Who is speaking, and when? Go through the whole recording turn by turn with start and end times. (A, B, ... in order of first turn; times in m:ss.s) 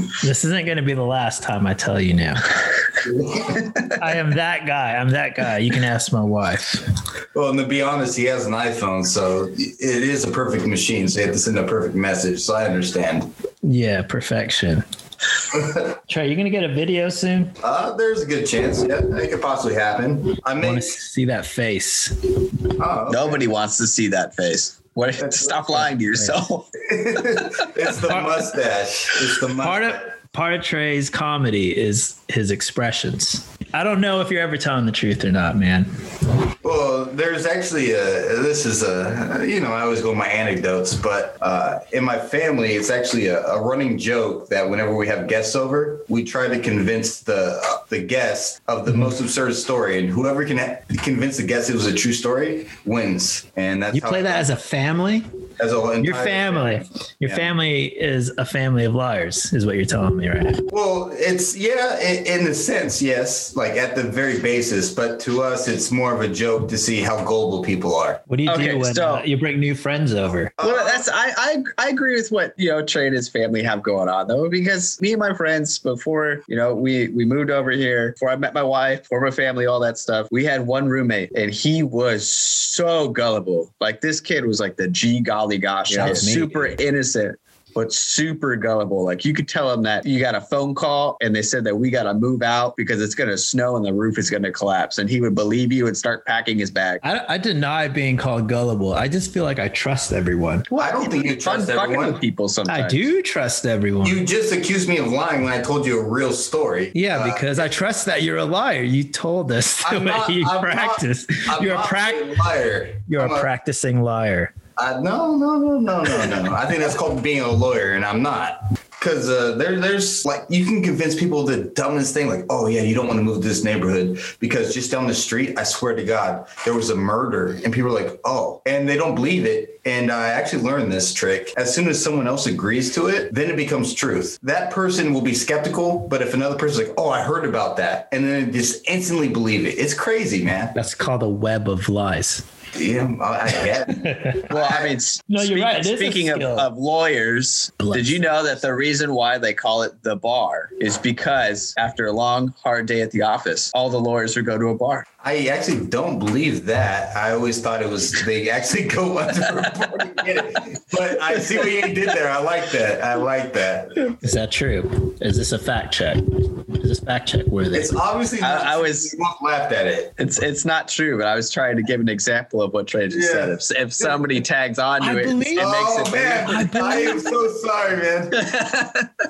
0:00.2-0:02.4 A
0:03.0-0:03.8 B
0:04.0-0:06.9 A
0:07.3-0:13.3 B
0:13.6-0:14.8 A
0:16.1-0:17.6 A
0:17.6-0:21.0 B
0:20.6-0:22.2 A
0:22.8-0:23.5 B
0:23.1-0:27.5 C
0:25.2-0:25.8 B
0:26.9-0:30.0 B
0:28.1-0:28.5 A
0:29.4-0:35.9 A
0:36.6-0:54.5 B
0:53.9-0:55.3 A
0:55.6-0:57.5 B
0:56.0-1:00.6 A
1:00.7-1:08.2 B
1:08.3-1:10.6 A
1:08.5-1:09.2 C
1:10.6-1:11.1 B
1:10.6-1:37.0 C
1:25.9-1:26.8 A
1:37.0-1:41.1 A
1:40.8-1:42.2 B
1:41.4-1:43.1 C
1:42.7-1:44.2 A
1:44.0-1:47.7 B
1:46.9-1:52.3 A
1:49.8-1:53.5 B
1:53.1-1:54.5 A
1:54.8-2:20.8 B
2:20.8-2:22.4 A
2:22.7-2:25.0 B
2:23.9-2:24.5 A
2:24.5-2:35.0 C
2:25.3-2:26.7 A
2:27.8-2:28.2 A
2:35.2-2:44.1 B
2:41.5-2:41.8 C
2:44.1-2:48.0 A
2:47.7-2:50.2 B
2:48.4-2:49.1 C
2:50.2-2:56.7 C
2:53.1-2:54.2 B
2:55.0-2:55.7 A
2:55.6-2:58.6 B
2:56.4-2:57.3 A
2:58.3-2:59.1 C